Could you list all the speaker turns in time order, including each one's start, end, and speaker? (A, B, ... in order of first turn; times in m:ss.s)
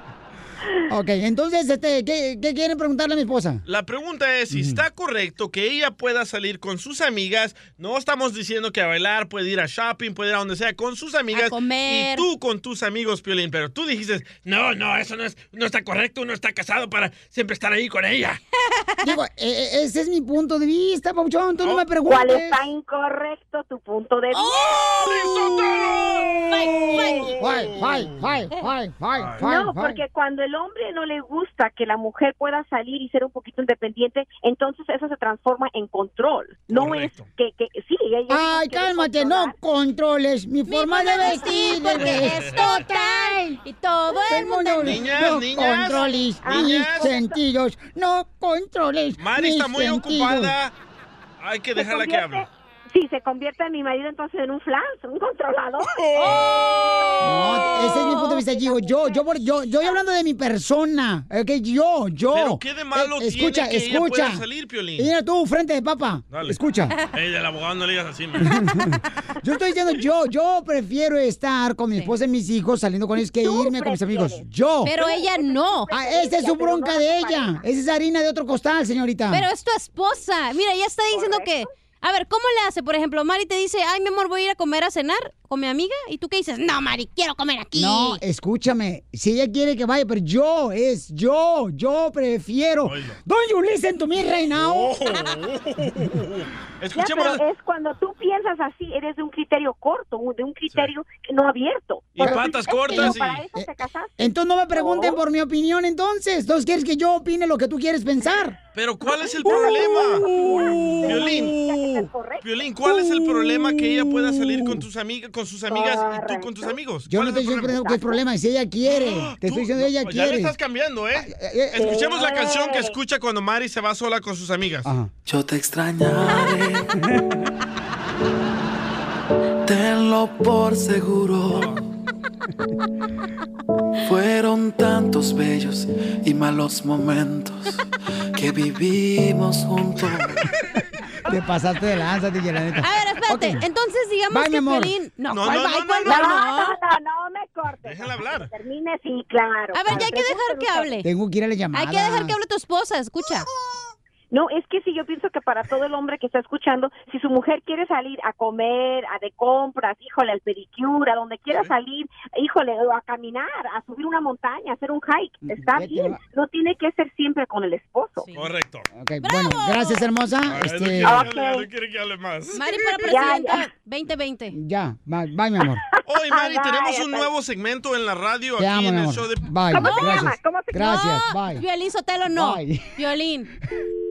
0:00.9-0:03.6 A
0:03.7-0:18.4 B
0:04.5-0:04.8 A
0:11.3-0:12.3 C
0:19.0-0:22.6 A
0:22.0-0:24.7 D
0:24.3-0:27.3 C
0:25.0-0:26.0 B
0:26.9-0:28.2 B
0:27.3-0:30.0 A
0:29.2-0:29.4 B
0:29.4-0:39.6 D
0:36.7-0:37.3 B
0:38.3-0:43.6 A
0:40.7-0:45.0 C
0:44.3-0:50.6 A
0:44.8-0:47.1 B
0:46.4-0:47.4 D
0:49.2-0:50.7 B
0:51.4-0:52.5 B
0:51.8-1:00.0 D
0:56.0-0:57.1 B
0:56.2-0:56.7 C
0:57.2-1:04.4 A
0:57.4-0:58.6 C
1:02.3-1:05.1 B
1:05.0-1:07.0 A
1:06.3-1:06.6 B
1:07.1-1:08.6 B
1:08.5-1:15.0 A
1:13.2-1:17.6 D
1:14.8-1:15.9 C
1:15.9-1:19.5 A
1:19.3-1:28.2 C
1:21.1-1:21.7 D
1:27.8-1:35.0 A
1:32.8-1:33.2 B
1:34.6-1:37.4 B
1:37.0-1:45.2 D
1:42.2-1:43.4 B
1:42.2-1:48.6 A
1:48.8-1:50.3 B
1:49.5-1:52.6 D
1:51.0-1:51.6 B
1:52.4-1:57.8 B
1:55.7-1:56.7 D
1:57.1-2:00.5 A
1:57.7-1:58.2 D
1:59.0-2:04.9 B
2:01.2-2:01.9 A
2:01.8-2:03.0 D
2:04.8-2:05.1 A
2:05.3-2:06.9 E
2:09.7-2:11.7 E
2:11.5-2:11.8 B
2:14.1-2:17.7 E
2:18.4-2:20.4 E
2:21.2-2:23.6 A
2:22.8-2:26.8 C
2:24.3-2:24.9 A
2:25.3-2:26.5 B
2:26.1-2:31.0 D
2:27.9-2:28.5 B
2:29.7-2:31.1 C
2:31.0-2:32.4 A
2:31.7-2:33.5 C
2:34.3-2:48.3 D
2:45.7-2:46.2 A
2:48.2-2:48.5 C
2:48.4-2:48.9 B
2:48.9-2:51.3 A
2:49.2-2:50.1 C
2:50.5-2:52.8 B
2:51.0-2:51.7 D
2:52.5-2:54.6 C
2:53.0-2:53.7 D
2:54.5-2:55.8 A
2:55.9-2:57.3 D
2:56.1-2:59.5 B
2:58.6-3:01.6 A
2:59.7-3:00.8 D
2:59.8-3:03.5 C
3:02.3-3:03.0 A